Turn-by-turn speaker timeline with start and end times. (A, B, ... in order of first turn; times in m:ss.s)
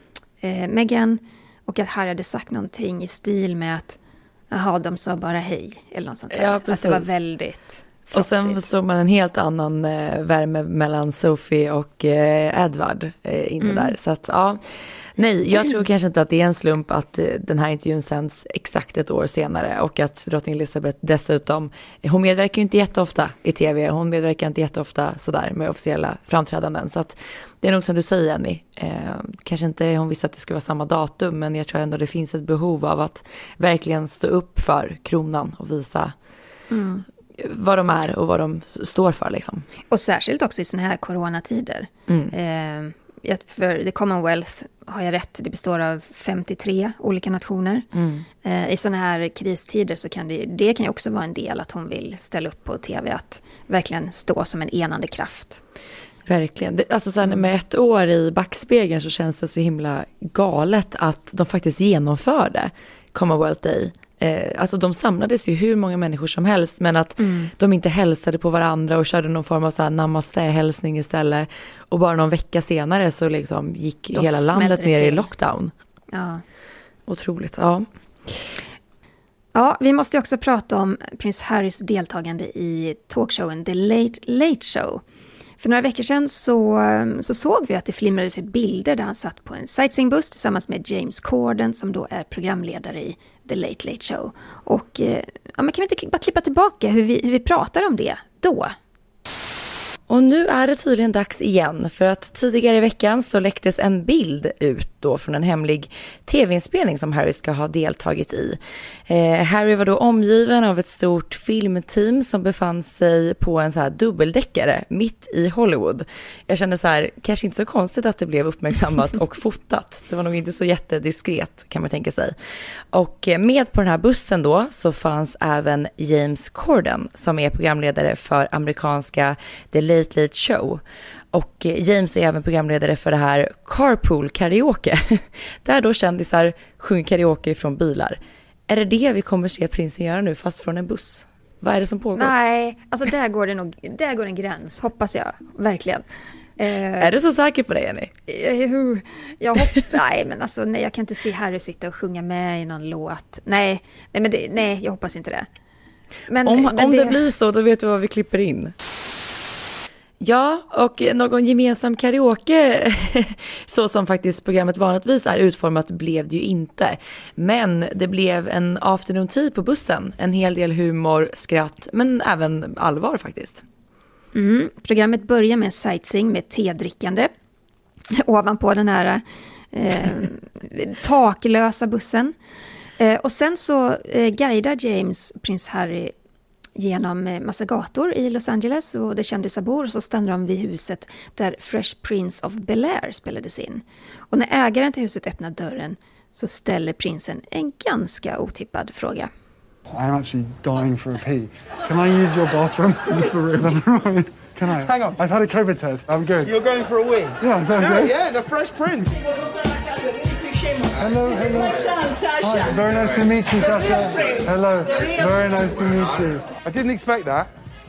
0:00.4-0:04.0 A
0:04.5-0:08.6 A
0:06.3-0:07.1 B
0:08.1-0:36.1 B
0:13.6-0:13.9 A
0:36.7-0:37.0 A
0:37.4-0:39.7 B
0:39.9-0:47.9 A
0:47.9-0:48.2 B
0:48.4-0:55.6 A
0:56.2-1:15.7 B
1:07.2-1:07.5 A
1:14.1-1:15.3 A
1:16.1-1:16.4 A
1:17.1-1:18.4 B
1:19.5-1:25.0 A
1:25.6-1:38.7 A
1:40.1-2:02.3 B
2:02.9-2:22.3 B
2:22.2-2:26.0 A
2:26.6-2:27.1 A
2:27.0-2:28.1 B
2:28.3-2:35.5 A
2:36.3-2:37.2 A
2:36.4-2:38.7 B
2:40.2-2:53.6 B
2:54.3-2:57.3 A
2:58.1-3:02.3 A
3:03.0-3:06.1 A
3:06.8-3:19.3 A
3:20.0-3:26.5 C
3:24.8-3:25.2 D
3:26.4-3:29.2 D
3:27.4-3:28.1 C
3:31.0-3:36.5 C
3:36.6-3:37.5 D